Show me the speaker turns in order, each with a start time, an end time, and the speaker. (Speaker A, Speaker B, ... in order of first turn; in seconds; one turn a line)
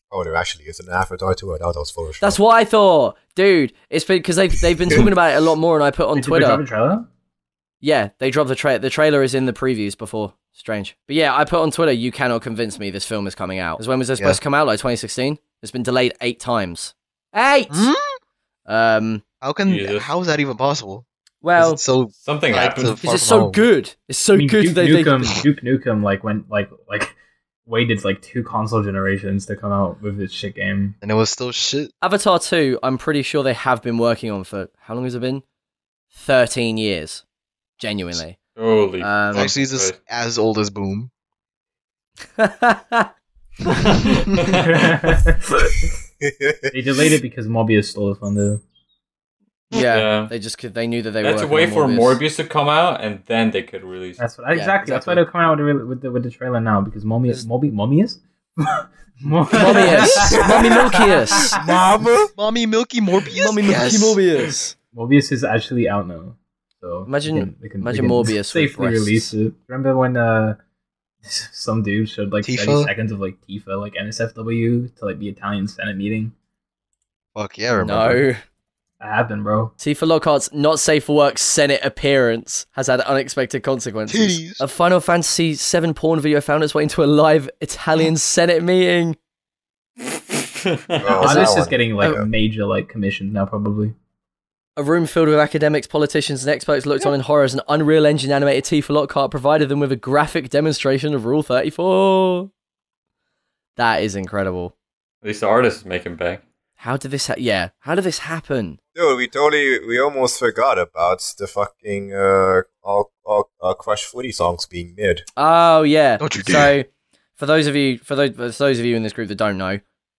Speaker A: 0.1-2.4
Speaker B: 2.2-6.6
Speaker C: 6.1-7.0
Speaker B: 7.8-17.9
Speaker D: 17.7-18.2
Speaker B: 18.7-19.2
Speaker D: 19.4-21.0
Speaker E: 19.6-20.1
Speaker B: 21.4-21.8
Speaker D: 21.6-23.6
Speaker E: 22.2-23.0
Speaker B: 23.0-25.3
Speaker C: 24.3-27.1
Speaker C: 27.7-30.9
Speaker D: 31.0-31.9
Speaker B: 32.0-35.4
Speaker B: 36.1-37.2
Speaker B: 37.8-38.4
Speaker E: 38.5-40.0
Speaker B: 39.0-39.5
Speaker D: 39.3-41.1
Speaker B: 42.4-43.1
Speaker E: 43.7-44.9
Speaker C: 44.5-45.8
Speaker A: 46.2-46.7
Speaker C: 46.7-48.6
Speaker B: 49.7-52.2
Speaker E: 49.8-50.3
Speaker E: 51.2-54.2
Speaker C: 54.2-61.6
Speaker B: 54.5-55.2
Speaker B: 59.5-61.6
Speaker D: 59.7-60.6
Speaker A: 60.2-62.3
Speaker D: 62.4-64.2
Speaker B: 63.3-64.7
Speaker C: 64.9-70.6
Speaker B: 67.1-69.3
Speaker C: 71.2-76.3
Speaker D: 72.4-72.9
Speaker D: 77.3-78.2
Speaker B: 77.8-78.4
Speaker C: 79.0-79.7
Speaker B: 79.8-89.2
Speaker D: 84.1-84.6
Speaker E: 90.0-91.1
Speaker A: 91.0-92.3
Speaker B: 91.2-91.5
Speaker C: 91.2-93.9
Speaker B: 94.8-102.5
Speaker B: 103.8-104.7
Speaker E: 105.2-106.4
Speaker B: 106.8-108.8
Speaker A: 108.9-115.2
Speaker B: 115.3-116.9
Speaker D: 116.2-116.8
Speaker B: 117.4-119.8